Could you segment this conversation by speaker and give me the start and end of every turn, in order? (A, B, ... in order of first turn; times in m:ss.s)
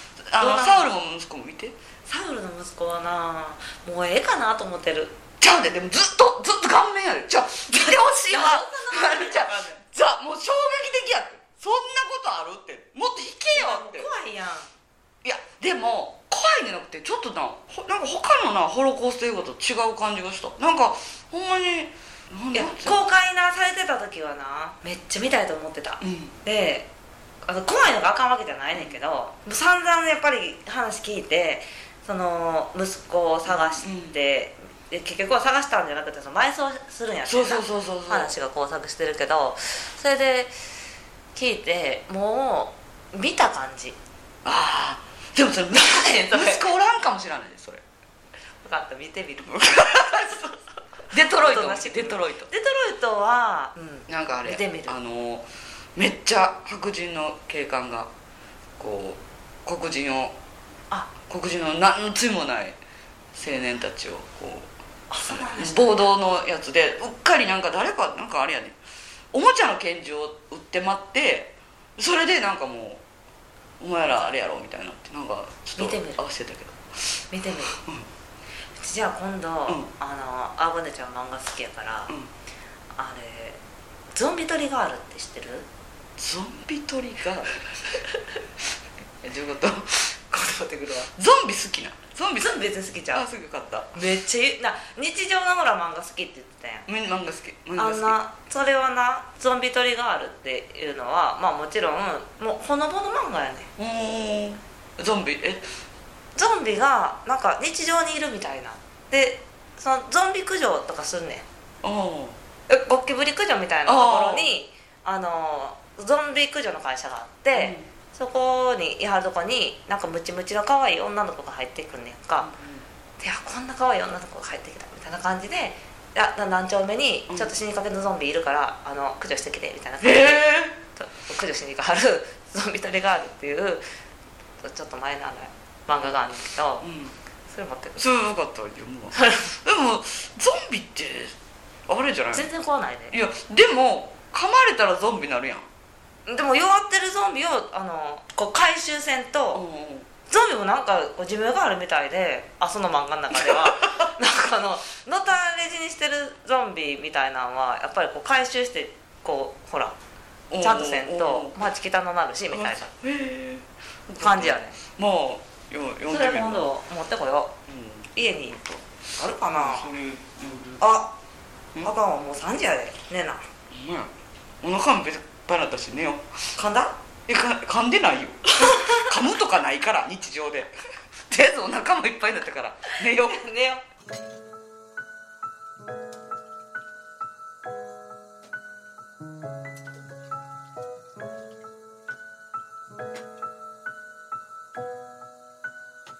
0:00.3-0:01.7 A
0:00.4-0:00.9 B
0:02.0-0:05.2 B
0:05.4-0:14.1 A
0:07.7-0:09.8 B
0:13.5-0:14.7 B
0:15.2-0:23.0 A
0:22.5-0:26.9 B
0:26.0-0:26.3 A
0:27.4-0:40.5 B
0:33.4-0:34.1 A
0:37.2-0:38.3 A
0:41.3-0:44.0 B
0:44.4-0:47.8 A
0:45.7-0:46.6 B
0:48.6-0:50.6 B
0:49.5-0:50.4 A
0:51.1-0:52.5 A
0:51.2-0:55.0 B
0:54.1-0:58.1 A
0:58.8-1:00.3 A
1:01.3-1:02.8 A
1:03.3-1:04.7 A
1:05.1-1:06.1 B
1:05.3-1:08.8 A
1:09.3-1:13.0 A
1:13.8-1:16.8 A
1:14.1-1:14.3 B
1:15.8-1:16.2 B
1:17.3-1:17.8 B
1:17.7-1:18.1 A
1:18.8-1:22.1 B
1:22.9-1:23.6 B
1:24.1-1:25.7 B
1:26.2-1:27.7 A
1:29.2-1:30.2 A
1:30.3-1:31.1 B
1:31.1-1:34.0 A
1:32.4-1:33.2 B
1:33.9-1:36.9 B
1:36.9-1:38.2 A
1:37.8-1:43.7 B
1:43.8-1:45.6 A
1:46.3-1:51.4 B
1:51.8-1:52.4 A
1:52.7-2:02.5 B
1:53.8-1:54.6 A
1:57.5-1:57.9 A
2:02.4-2:02.8 A
2:03.2-2:13.8 B
2:07.3-2:07.5 A
2:10.0-2:10.8 A
2:14.6-2:16.9 B
2:16.8-2:17.2 A
2:17.5-2:18.0 B
2:18.0-2:21.3 A
2:19.2-2:19.5 B
2:21.9-2:22.5 A
2:22.3-2:23.2 B
2:23.1-2:25.7 A
2:26.2-2:29.6 B
2:29.5-2:30.1 A
2:30.3-2:40.0 B
2:33.3-2:34.1 A
2:40.5-2:41.7 A
2:40.6-2:42.9 B
2:42.5-2:46.7 A
2:44.2-2:44.8 B
2:46.0-2:47.6 B
2:47.7-2:48.8 A
2:48.1-2:48.6 B
2:49.2-2:49.9 B
2:49.5-2:50.8 A
2:50.8-2:51.1 B
2:51.8-2:53.4 B
2:53.7-2:54.1 A
2:54.6-2:56.3 A
2:56.6-2:57.0 B
2:57.3-3:00.7 A
2:58.5-2:59.1 B
3:01.3-3:03.4 A
3:03.1-3:03.8 B